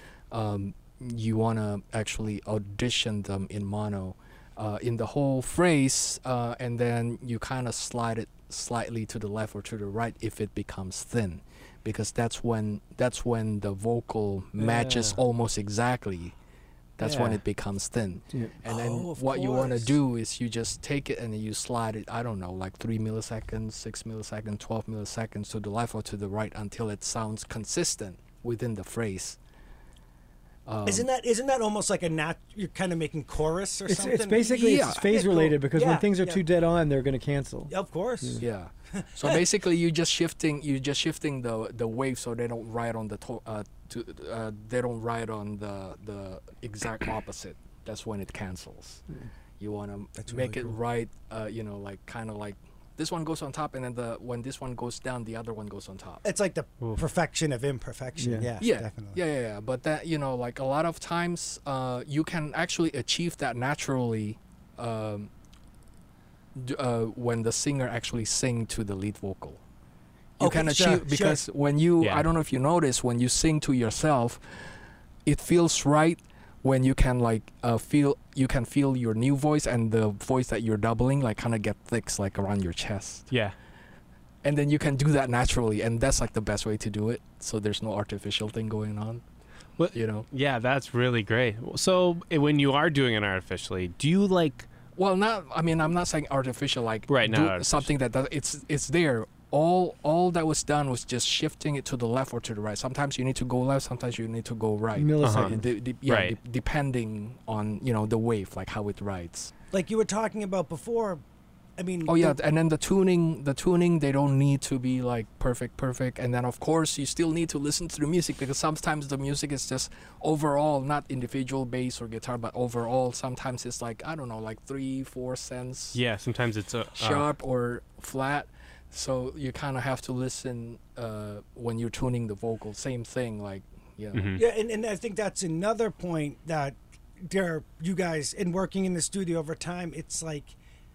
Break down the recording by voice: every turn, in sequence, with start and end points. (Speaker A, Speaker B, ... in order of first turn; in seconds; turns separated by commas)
Speaker A: 0.3-16.4, Speaker B: 14.6-15.1, Speaker A: 17.0-29.4, Speaker C: 17.0-17.4, Speaker C: 18.6-20.0, Speaker A: 30.6-31.1, Speaker C: 30.8-36.4, Speaker D: 33.9-38.4, Speaker A: 34.4-35.3, Speaker C: 37.7-39.4, Speaker A: 38.4-49.0, Speaker A: 49.6-56.2, Speaker C: 50.2-50.8, Speaker C: 56.2-59.2, Speaker D: 58.2-58.5, Speaker A: 58.6-65.3, Speaker A: 66.5-69.6, Speaker A: 70.4-74.4, Speaker C: 70.4-71.4, Speaker B: 72.0-72.2, Speaker A: 75.2-83.3, Speaker B: 83.3-83.5, Speaker A: 84.4-89.2, Speaker B: 89.8-94.7, Speaker A: 89.9-90.2, Speaker A: 95.0-109.5, Speaker B: 97.1-97.9, Speaker D: 105.0-105.7, Speaker B: 105.2-105.5, Speaker B: 106.0-106.3, Speaker C: 109.7-111.2, Speaker C: 111.8-112.4, Speaker A: 112.0-126.0, Speaker B: 125.9-127.3, Speaker A: 127.0-134.4, Speaker B: 134.1-134.4, Speaker C: 134.3-140.6